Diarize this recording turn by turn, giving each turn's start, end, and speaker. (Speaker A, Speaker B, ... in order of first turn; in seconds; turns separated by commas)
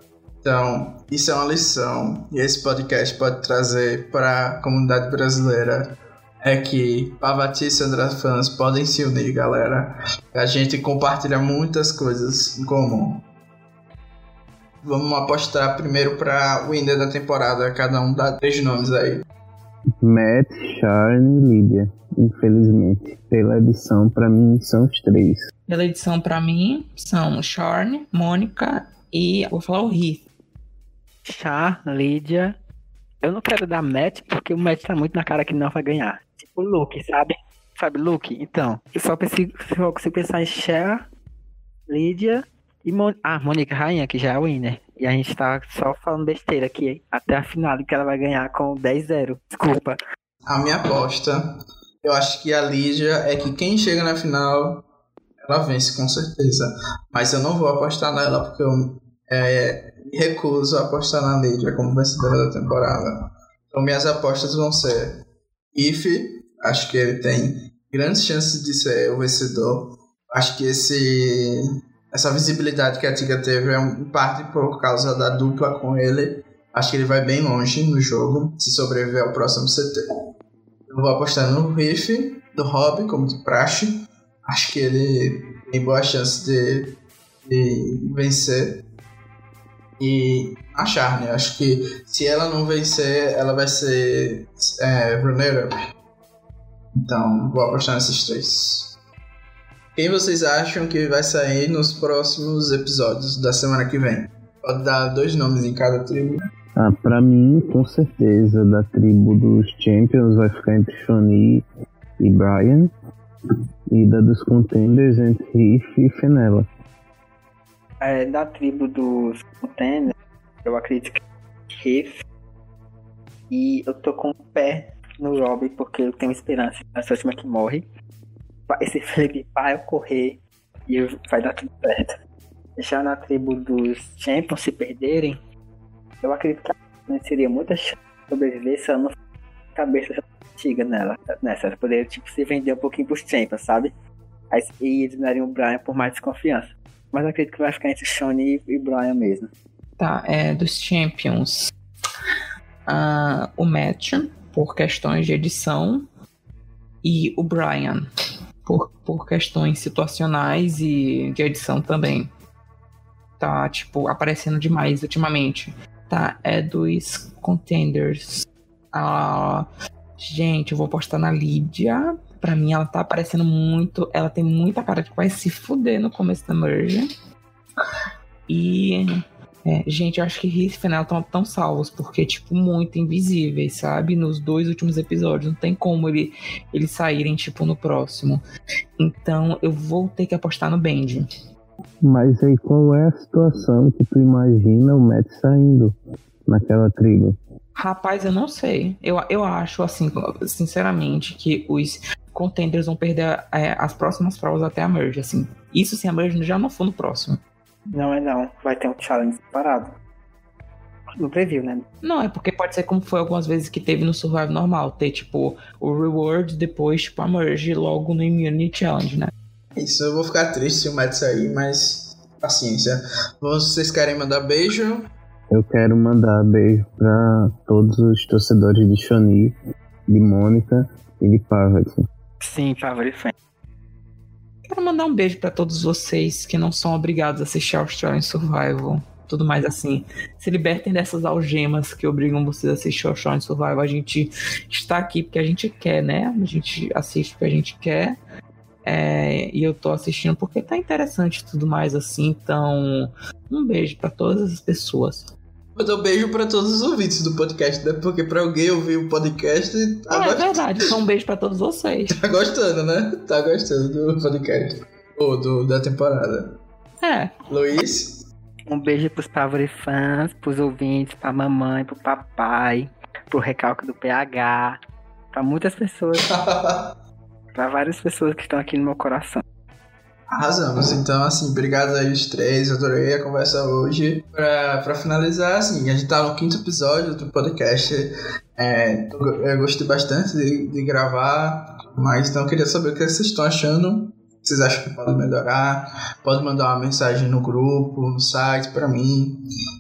Speaker A: 0.4-13.2, Speaker A: 14.8-19.2, Speaker B: 20.0-25.4, Speaker C: 25.7-30.2, Speaker D: 31.2-32.5, Speaker D: 33.2-41.0, Speaker D: 41.9-50.0, Speaker A: 50.5-51.5, Speaker A: 52.0-54.8, Speaker A: 55.4-65.2, Speaker A: 65.7-80.0, Speaker A: 80.9-83.9, Speaker A: 84.5-88.8, Speaker A: 90.0-95.8, Speaker A: 97.0-98.9, Speaker A: 100.0-106.5, Speaker B: 106.8-111.7, Speaker B: 112.2-112.9, Speaker B: 113.9-116.7, Speaker D: 118.0-120.1, Speaker D: 120.6-121.2, Speaker D: 121.7-122.2, Speaker D: 123.5-127.8, Speaker D: 128.7-132.1, Speaker D: 132.8-135.4, Speaker D: 136.2-139.2, Speaker D: 139.7-143.9, Speaker D: 144.5-149.5, Speaker C: 150.0-151.7, Speaker C: 152.9-156.1, Speaker C: 157.0-158.1, Speaker C: 158.7-162.3, Speaker C: 163.4-169.7, Speaker C: 170.2-177.1, Speaker C: 178.5-179.1, Speaker C: 179.7-188.4, Speaker C: 189.0-191.3, Speaker B: 192.0-195.9, Speaker B: 196.5-197.4, Speaker C: 197.8-207.4, Speaker D: 207.9-209.9, Speaker D: 211.2-211.8, Speaker C: 212.0-219.3, Speaker A: 219.8-225.1, Speaker B: 225.5-229.6, Speaker B: 230.1-232.1, Speaker D: 232.4-233.3, Speaker C: 234.7-248.2, Speaker C: 248.8-255.3, Speaker A: 255.8-260.6, Speaker C: 260.1-262.2, Speaker A: 262.2-266.5, Speaker C: 267.0-267.3, Speaker A: 267.5-268.2, Speaker D: 268.7-274.8, Speaker D: 275.3-276.3, Speaker A: 276.2-276.9, Speaker D: 277.5-279.4, Speaker A: 280.3-299.4